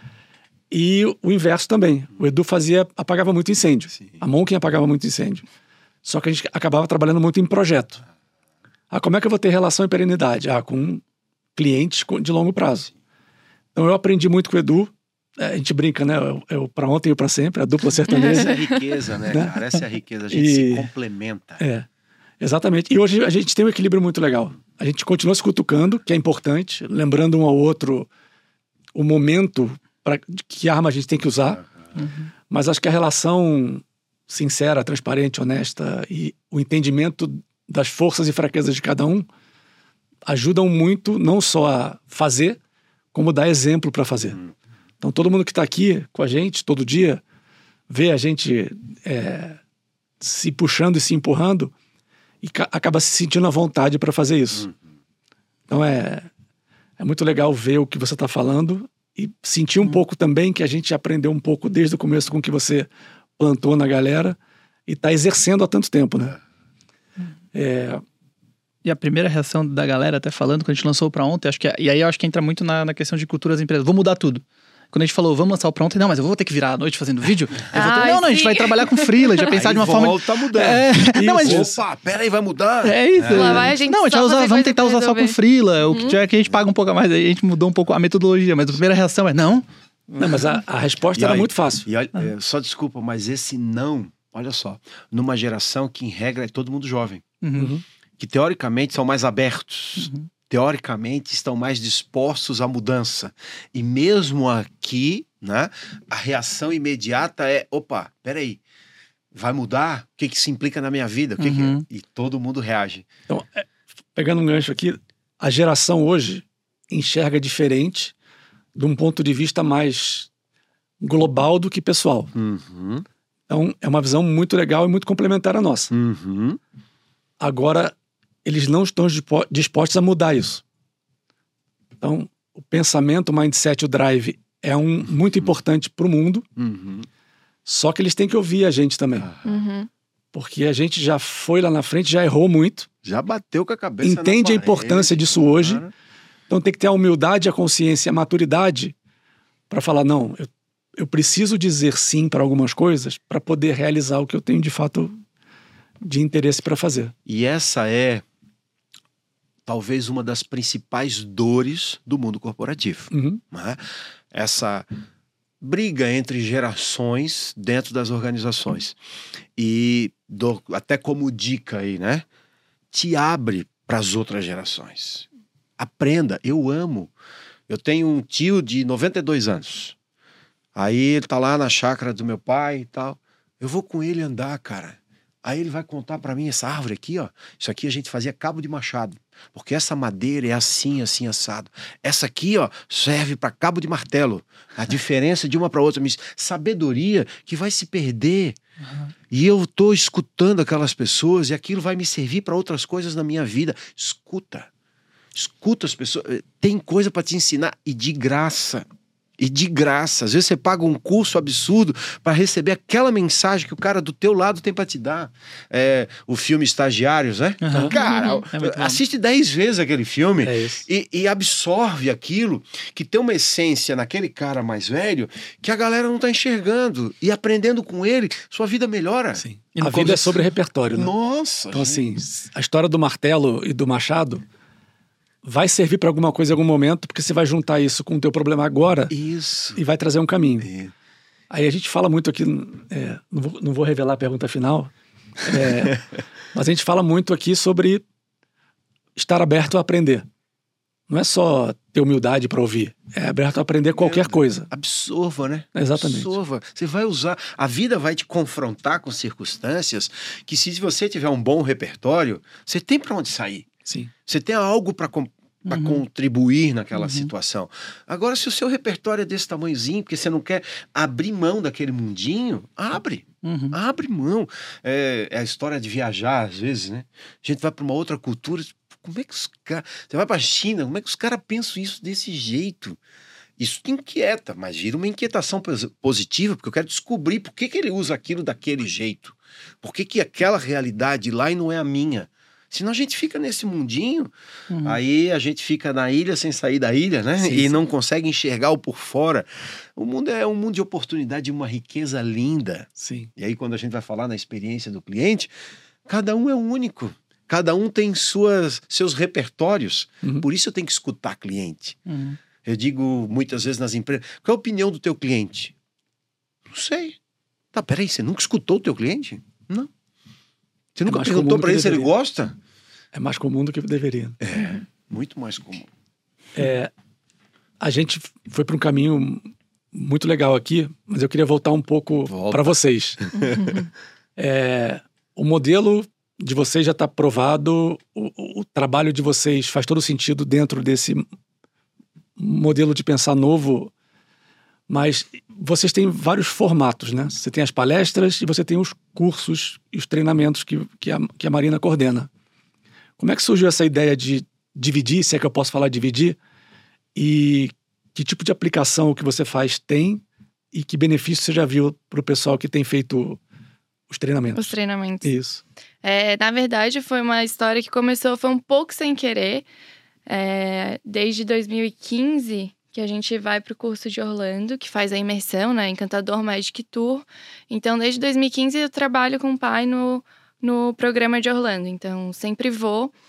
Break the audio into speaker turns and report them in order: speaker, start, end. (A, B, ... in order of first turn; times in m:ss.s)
0:00.7-0:05.4 A
0:06.0-0:08.0 A
0:08.9-0:11.0 A
0:11.6-0:12.9 A
0:13.7-0:18.7 A
0:18.1-0:18.5 B
0:18.2-0:21.6 C
0:19.3-0:19.6 A
0:20.3-0:20.9 A
0:21.6-0:21.8 A
0:22.4-0:28.1 A
0:28.9-0:31.6 A
0:32.0-0:32.3 D
0:32.5-0:39.3 A
0:40.2-0:42.6 A
0:43.1-0:44.4 A
0:45.0-0:47.2 A
0:47.9-0:49.6 A
0:50.2-0:51.7 A
0:52.4-0:54.7 A
0:55.7-0:56.3 A
0:57.0-1:02.9 A
1:03.4-1:06.4 A
1:07.5-1:08.0 A
1:08.8-1:21.6 D
1:17.7-1:19.2 B
1:19.5-1:23.7 C
1:20.6-1:21.7 A
1:22.8-1:30.6 D
1:23.3-1:25.4 B
1:25.9-1:26.2 B
1:30.2-1:31.9 A
1:31.1-1:37.2 C
1:37.4-1:37.7 D
1:37.6-1:37.8 A
1:38.2-1:48.6 C
1:40.0-1:40.3 D
1:49.3-1:53.1 C
1:51.4-1:51.8 D
1:53.3-1:58.1 A
1:58.7-2:00.3 A
2:01.0-2:02.3 A
2:02.3-2:03.0 C
2:03.5-2:05.9 A
2:05.9-2:06.6 C
2:07.4-2:10.6 A
2:12.0-2:16.5 A
2:16.6-2:17.1 C
2:17.6-2:19.3 A
2:19.2-2:19.6 C
2:19.4-2:19.9 B
2:20.3-2:22.9 A
2:23.0-2:25.9 C
2:24.0-2:25.8 A
2:26.5-2:28.9 A
2:29.7-2:35.2 A
2:36.0-2:37.1 A
2:37.2-2:38.2 C
2:39.6-2:44.8 C
2:43.1-2:43.4 A
2:45.6-2:49.0 C
2:49.6-2:52.2 C
2:52.9-2:55.2 C
2:55.8-2:57.1 C
2:57.7-3:00.0 C
3:00.7-3:18.6 C
3:18.8-3:19.1 D
3:19.3-3:24.7 C
3:25.3-3:28.8 C
3:29.4-3:50.2 C
3:37.6-3:38.0 D
3:37.9-3:38.4 B
3:38.5-3:39.0 D
3:40.4-3:40.8 A
3:49.4-3:51.1 A
3:49.8-3:50.1 D
3:50.9-3:52.0 C
3:51.7-3:54.4 A
3:55.4-3:59.2 A
3:59.1-3:59.8 C
3:59.7-4:00.7 A
4:00.6-4:00.9 C
4:01.5-4:08.0 A
4:09.2-4:10.2 A
4:11.1-4:14.7 A
4:14.0-4:23.7 C
4:15.7-4:16.3 A
4:23.8-4:24.1 A
4:24.2-4:43.0 C
4:25.7-4:26.0 D
4:27.0-4:27.3 D
4:33.4-4:33.8 D
4:43.6-4:54.3 C
4:54.7-4:55.0 D
4:54.8-5:05.5 C
4:57.4-4:57.7 A
5:03.0-5:03.3 A
5:06.0-5:12.0 C
5:12.1-5:12.4 D
5:12.6-5:15.7 C
5:16.7-5:17.2 C
5:17.7-5:19.9 C
5:20.9-5:22.5 C
5:21.0-5:22.1 A
5:23.1-5:24.4 A
5:24.4-5:25.9 C
5:26.5-5:26.9 A
5:27.8-5:33.2 A
5:32.3-5:33.6 C
5:34.4-5:41.2 A
5:42.4-5:43.9 A
5:44.9-5:52.3 A
5:53.2-5:56.4 A
5:57.1-6:03.4 A
6:04.1-6:04.7 A
6:04.5-6:05.3 B
6:05.2-6:05.6 A
6:06.0-6:09.6 B
6:10.3-6:23.1 B